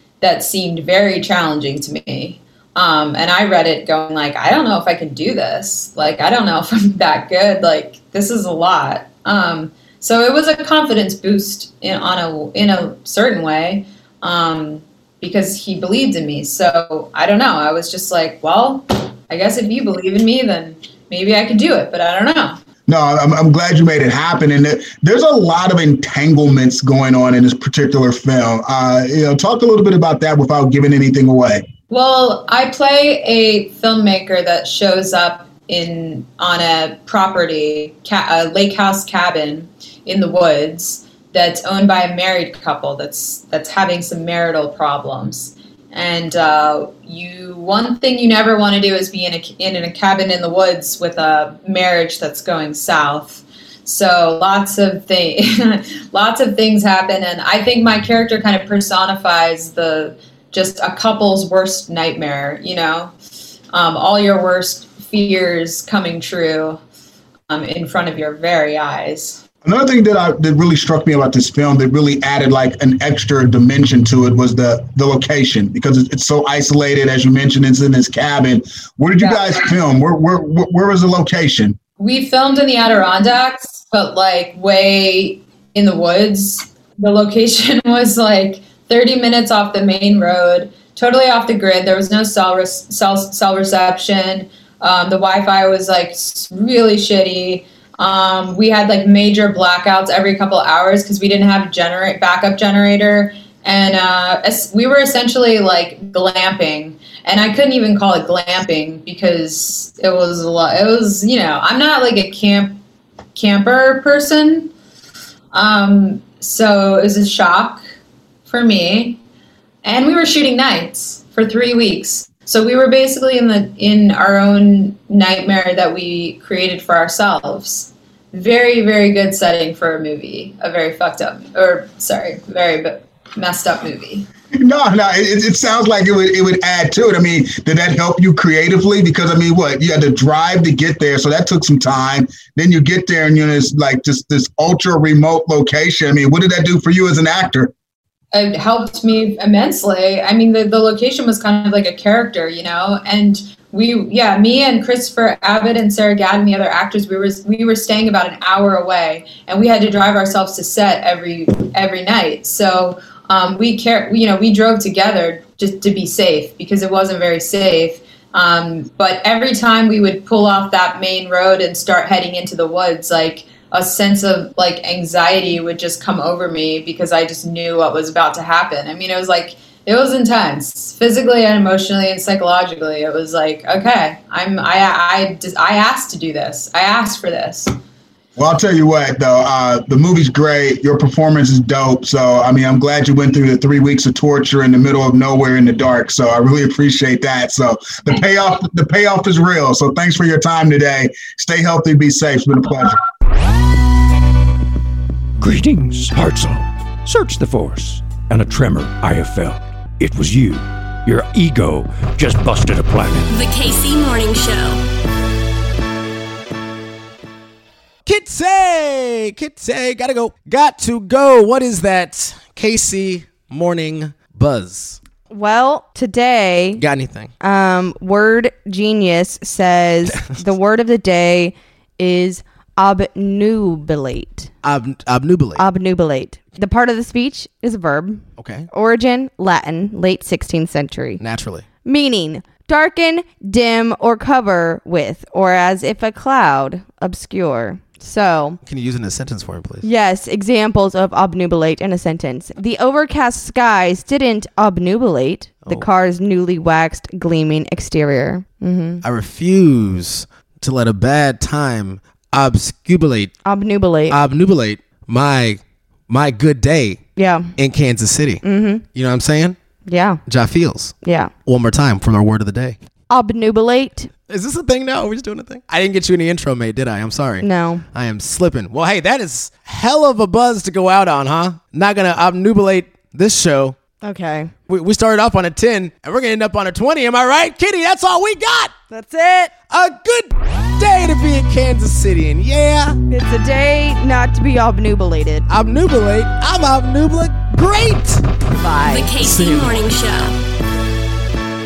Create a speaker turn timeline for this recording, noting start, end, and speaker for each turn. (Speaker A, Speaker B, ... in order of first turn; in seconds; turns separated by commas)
Speaker A: 0.2-22.6, Speaker B: 22.9-31.6, Speaker A: 31.9-63.1, Speaker A: 63.7-66.8, Speaker A: 67.5-69.4, Speaker B: 69.6-81.8, Speaker A: 79.2-79.6, Speaker A: 82.0-112.8, Speaker A: 113.3-114.7, Speaker A: 115.5-117.8, Speaker A: 118.5-119.2, Speaker A: 119.8-134.3, Speaker B: 134.5-147.7, Speaker A: 148.3-187.7, Speaker B: 188.4-203.0, Speaker C: 205.4-213.2, Speaker D: 213.3-214.8, Speaker E: 218.1-225.0, Speaker F: 225.3-226.8, Speaker E: 226.8-227.3, Speaker F: 227.4-234.5, Speaker E: 234.6-235.6, Speaker F: 235.6-241.2, Speaker E: 238.4-238.7, Speaker E: 241.2-241.6, Speaker F: 241.8-248.6, Speaker E: 248.6-249.9, Speaker F: 249.8-259.0, Speaker E: 259.0-263.3, Speaker F: 263.4-264.2, Speaker E: 264.1-267.0, Speaker F: 267.2-267.5, Speaker E: 267.6-268.4, Speaker F: 268.4-268.8, Speaker E: 268.9-269.6, Speaker F: 269.9-270.2, Speaker E: 270.3-272.8, Speaker F: 271.0-271.3, Speaker F: 273.1-274.1, Speaker E: 274.3-283.8, Speaker F: 277.4-277.8, Speaker F: 284.0-284.5, Speaker E: 284.7-288.7, Speaker F: 288.9-289.5, Speaker E: 289.7-293.0, Speaker F: 293.1-295.5, Speaker E: 295.5-298.3, Speaker F: 298.5-299.1, Speaker D: 298.9-300.4, Speaker E: 299.2-299.8